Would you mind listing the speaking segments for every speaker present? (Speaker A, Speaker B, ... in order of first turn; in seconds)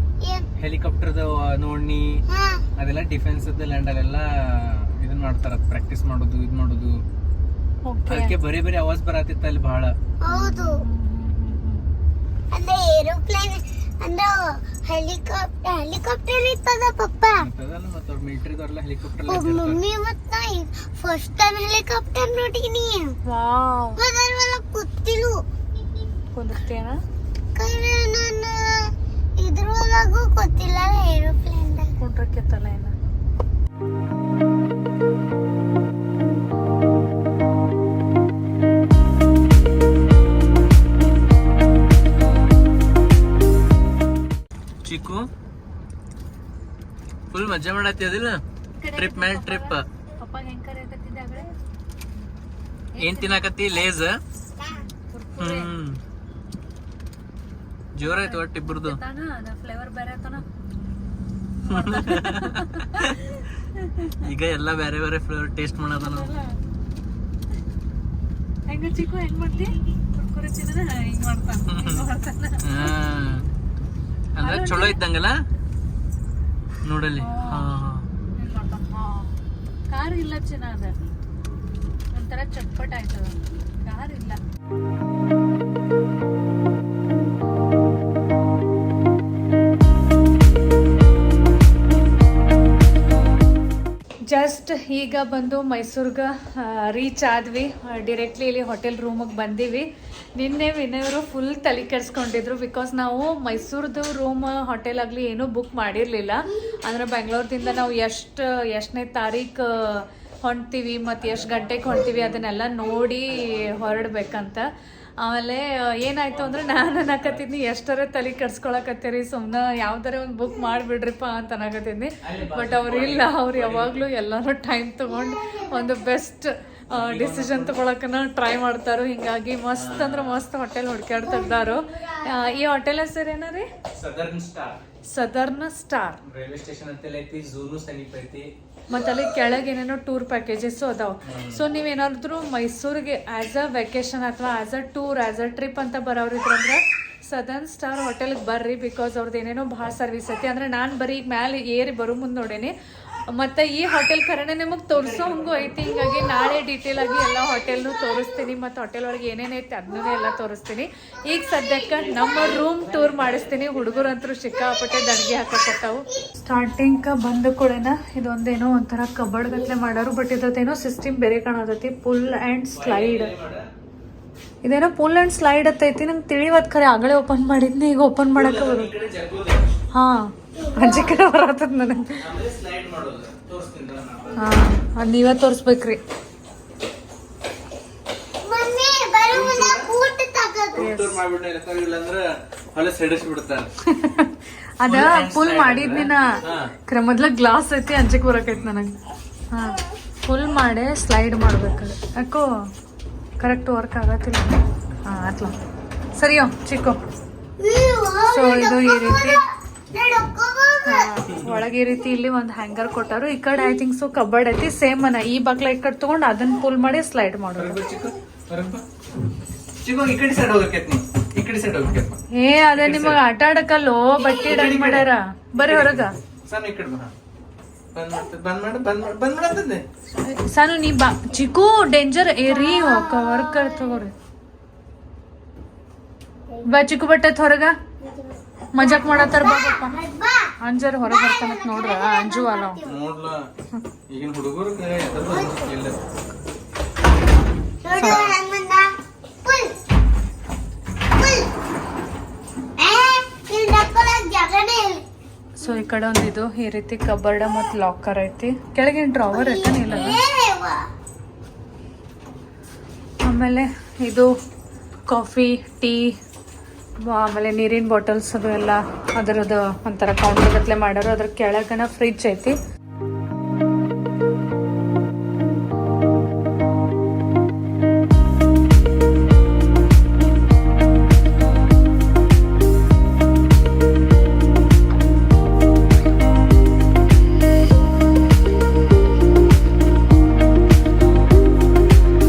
Speaker A: 0.2-0.5, 2.3-2.7, 10.2-10.8, 12.5-17.5, 19.3-23.2, 24.0-25.4, 27.6-31.9, 125.1-126.0, 131.2-132.6, 155.9-156.5, 164.5-165.3, 180.6-181.2, 188.4-191.1, 207.6-211.1, 232.4-234.0, 238.0-240.5, 241.1-243.0, 245.3-245.7, 247.8-248.9, 249.4-249.8, 251.1-251.5, 252.8-255.0, 259.3-260.9
Speaker B: 0.6-2.2, 2.8-7.0, 8.1-10.0, 17.4-19.8, 44.8-45.3, 47.3-48.4, 49.0-49.9, 53.0-54.2, 55.4-56.0, 58.0-59.0, 61.6-63.2, 64.2-66.3, 71.7-72.1, 72.6-73.5, 74.4-75.4, 76.8-78.1, 111.2-112.2, 116.3-117.5, 122.2-124.1, 126.9-127.8, 129.7-130.4, 133.9-134.8, 136.2-138.5, 141.2-141.6, 154.9-155.8, 162.0-164.2, 172.7-173.7, 178.3-179.7, 182.2-184.5, 189.2-189.9, 190.7-193.7, 194.8-196.7, 217.6-218.9, 219.8-222.2, 222.8-223.2, 224.4-227.1, 227.9-229.8, 242.8-243.5, 244.1-246.0, 247.9-248.4, 259.8-260.2
Speaker C: 7.8-8.3, 10.3-11.8, 23.3-24.0, 26.3-27.0, 32.0-32.9, 48.8-51.5, 53.0-53.5, 54.7-55.7, 58.0-60.5, 61.6-64.2, 66.0-66.6, 68.7-73.0, 74.4-75.0, 77.2-77.7, 78.4-79.3, 79.9-81.0, 82.1-84.4, 94.3-114.7, 115.2-133.7, 135.1-136.2, 138.9-152.7, 153.3-173.3, 174.6-178.9, 179.9-182.2, 184.4-186.0, 193.8-198.9, 199.5-202.5, 203.4-205.5, 206.2-207.0, 208.3-209.4, 210.8-217.8, 222.3-226.1, 230.2-234.1, 236.7-237.8, 238.8-240.0, 240.6-242.8, 247.9-248.3, 255.6-260.2, 263.2-264.3, 265.1-266.1, 267.0-272.6